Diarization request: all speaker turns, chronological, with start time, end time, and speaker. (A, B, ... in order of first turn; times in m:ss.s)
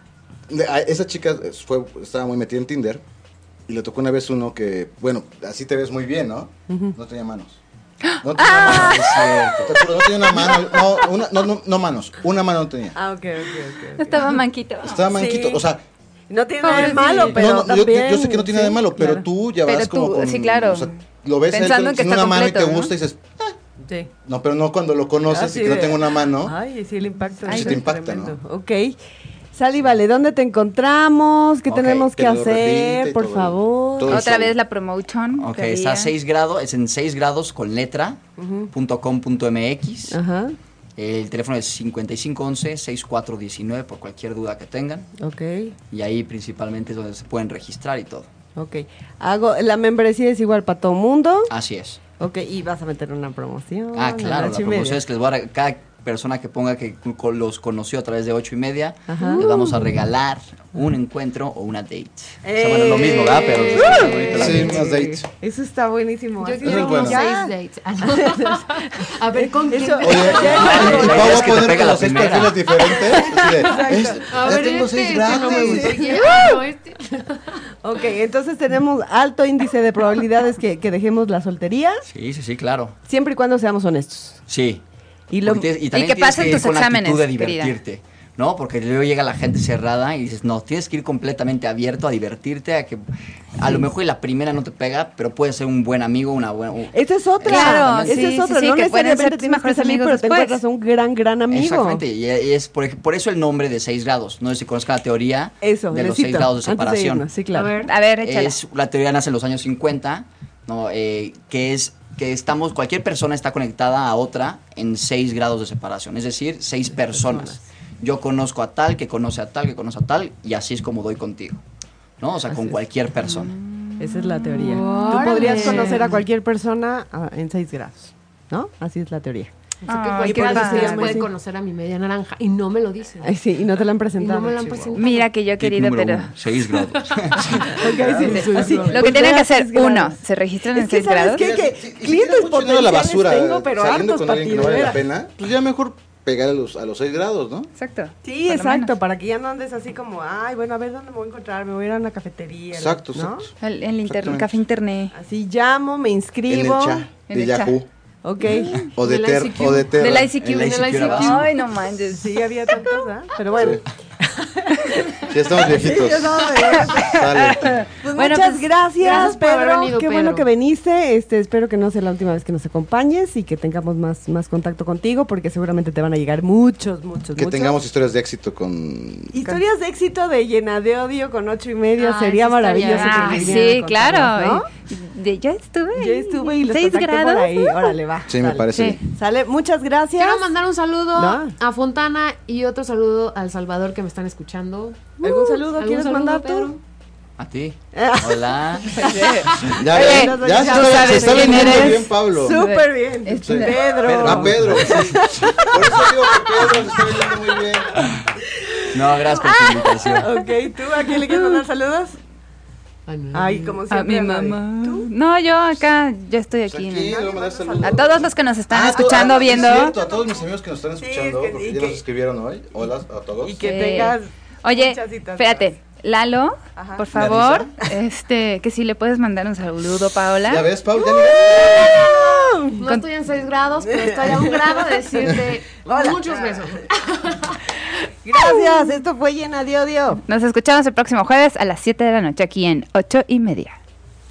0:00.5-0:03.0 A
0:03.7-0:07.6 A
0:06.7-0:07.0 B
0:08.2-0:11.1 C
0:08.2-0:13.0 A
0:08.6-0:09.8 D
0:13.0-0:14.3 B
0:14.0-0:15.1 C
0:14.8-0:15.8 A
0:15.1-0:15.6 B
0:16.3-0:19.3 B
0:16.6-0:17.4 C
0:16.7-0:23.6 A
0:19.7-0:20.9 C
0:21.5-0:22.9 C
0:24.2-0:26.6 A
0:25.3-0:29.0 B
0:27.4-0:27.8 C
0:27.5-0:28.4 A
0:29.5-0:34.2 B
0:31.7-0:34.6 A
0:34.1-0:36.1 C
0:35.4-0:40.2 D
0:38.4-0:38.7 B
0:40.1-0:40.6 B
0:41.0-0:45.1 D
0:45.2-0:45.7 B
0:45.9-0:48.3 D
0:48.6-0:51.5 B
0:51.5-0:52.0 D
0:52.2-0:55.0 B
0:53.9-1:04.8 D
0:59.1-0:59.9 B
1:02.4-1:07.5 B
1:03.0-1:04.7 E
1:04.3-1:05.3 A
1:06.4-1:11.4 E
1:06.6-1:07.2 A
1:08.0-1:11.8 B
1:10.0-1:16.2 A
1:10.5-1:12.6 D
1:12.8-1:17.6 E
1:13.2-1:16.6 B
1:17.8-1:22.0 B
1:22.1-1:23.0 D
1:23.1-1:24.4 B
1:24.5-1:24.8 D
1:25.3-1:25.7 B
1:25.4-1:33.0 D
1:25.9-1:27.8 C
1:33.6-1:38.3 D
1:36.9-1:42.0 B
1:37.4-1:40.6 C
1:41.5-1:47.3 D
1:45.6-1:47.8 B
1:47.5-1:47.9 E
1:47.8-1:48.6 C
1:48.2-2:01.6 D
1:57.0-1:57.6 B
2:02.2-2:03.5 D
2:03.2-2:06.1 C
2:04.0-2:09.5 B
2:04.6-2:06.2 E
2:09.8-2:13.3 E
2:09.9-2:11.2 C
2:10.2-2:11.3 B
2:13.2-2:15.0 B
2:14.2-2:15.3 E
2:15.0-2:16.4 C
2:15.6-2:17.8 D
2:16.8-2:19.2 E
2:17.6-2:20.2 B
2:17.9-2:18.9 A
2:18.3-2:21.5 C
2:20.7-2:25.0 B
2:21.4-2:27.7 A
2:27.8-2:28.9 C
2:28.2-2:33.5 B
2:32.7-2:33.5 A
2:33.6-2:35.1 C
2:34.0-2:34.5 A
2:35.1-2:37.1 B
2:36.5-2:37.9 A
2:37.3-2:37.8 C
2:38.2-2:38.9 B
2:38.5-2:38.9 C
2:39.0-2:40.3 A
2:39.0-2:41.5 E
2:39.9-2:42.9 C
2:40.3-2:41.5 D
2:42.1-2:47.2 B
2:43.6-2:43.8 A
2:45.3-2:47.8 A
2:46.7-2:49.3 C
2:48.0-2:57.8 B
2:49.0-2:50.5 E
2:57.4-2:59.4 A
2:59.3-3:04.7 B
3:02.0-3:03.7 E
3:02.8-3:08.0 C
3:05.9-3:10.5 B
3:08.3-3:09.0 A
3:08.7-3:09.0 C
3:10.2-3:16.8 E
3:11.2-3:11.5 B
3:15.2-3:16.7 B
3:17.4-3:19.2 D
3:17.9-3:27.7 B
3:19.0-3:24.0 C
3:19.7-3:22.6 A
3:23.4-3:28.0 A
3:24.0-3:25.2 D
3:28.9-3:30.3 D
3:29.4-3:30.4 C
3:30.1-3:32.2 B
3:33.1-3:33.8 E
3:33.3-3:35.1 B
3:33.9-3:37.2 C
3:36.7-3:43.7 A
3:37.0-3:38.2 B
3:37.8-3:40.0 C
3:39.6-3:39.9 B
3:41.0-3:42.0 B
3:43.4-3:45.6 B
3:43.6-3:50.7 C
3:46.8-3:47.1 B
3:47.1-3:47.7 D
3:50.4-3:52.2 A
3:51.0-3:52.8 B
3:52.8-3:57.6 E
3:53.9-3:56.6 B
3:58.2-4:00.2 B
4:00.3-4:03.8 C